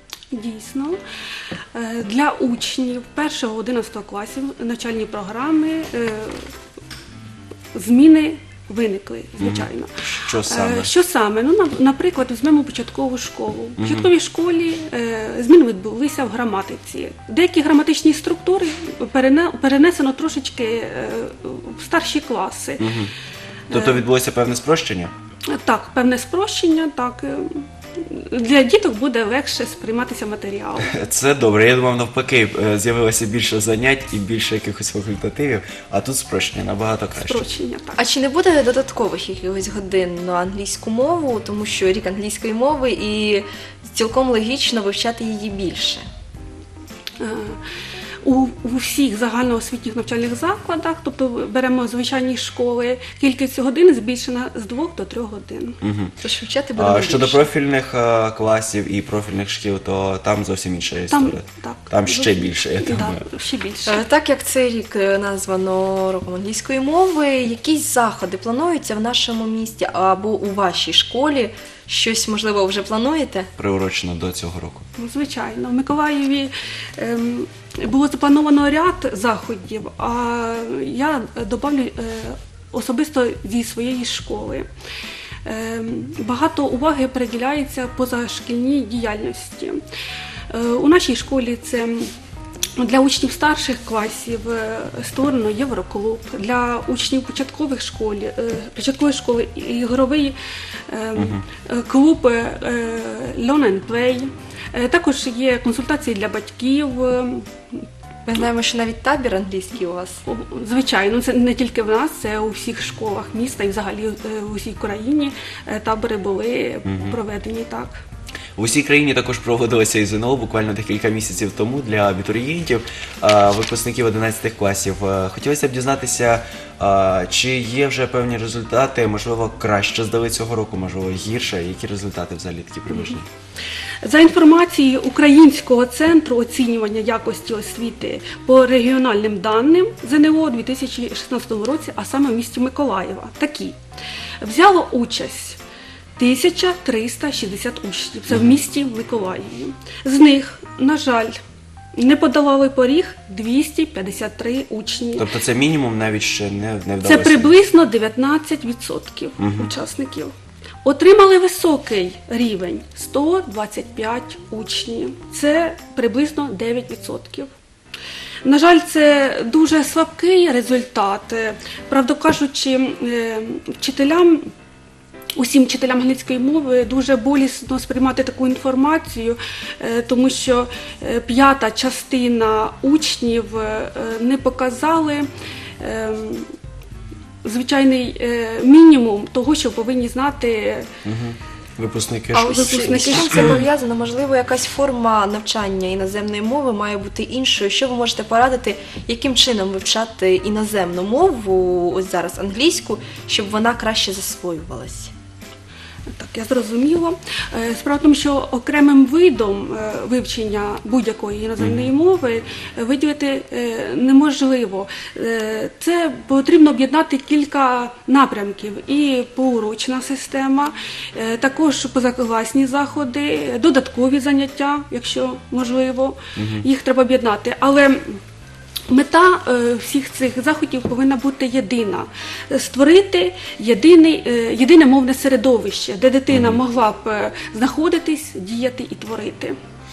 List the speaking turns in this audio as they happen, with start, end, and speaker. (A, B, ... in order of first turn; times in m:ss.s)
0:00.3-0:01.0 A
0:01.7-0:06.5 A
0:07.7-0:09.9 A
0:09.4-0:10.9 B
0:10.4-0:22.9 A
0:13.8-0:14.1 B
0:22.8-0:23.1 B
0:23.7-0:24.0 A
0:23.7-0:25.1 B
0:25.5-0:31.0 A
0:30.8-0:37.4 B
0:37.2-0:38.0 A
0:38.0-0:46.0 C
0:47.2-0:47.6 A
0:48.2-0:55.8 A
0:55.8-0:56.2 B
0:56.2-0:57.5 C
0:56.8-1:03.2 B
1:01.1-1:04.0 A
1:03.9-1:13.5 C
1:13.6-1:14.8 B
1:15.0-1:24.7 A
1:25.4-1:29.8 A
1:30.5-1:32.1 A
1:32.8-1:40.3 A
1:40.9-1:47.8 A
1:41.2-1:41.4 B
1:48.3-1:50.2 C
1:50.2-1:58.0 A
1:56.8-1:57.2 B
1:58.6-2:13.2 B
2:12.9-2:13.2 A
2:14.0-2:23.8 A
2:24.4-2:25.6 A
2:26.2-2:31.4 A
2:32.0-2:35.3 A
2:35.2-2:37.5 B
2:37.0-2:40.3 A
2:39.4-2:39.7 B
2:40.8-2:47.5 A
2:48.4-2:54.5 A
2:55.4-3:05.3 A
3:05.8-3:06.5 A
3:07.4-3:10.9 A
3:11.0-3:13.6 B
3:12.3-3:25.1 C
3:12.4-3:13.6 A
3:26.1-3:48.2 A
3:31.6-3:31.9 B
3:46.4-3:46.6 B
3:48.9-3:59.5 A
3:56.3-3:56.6 B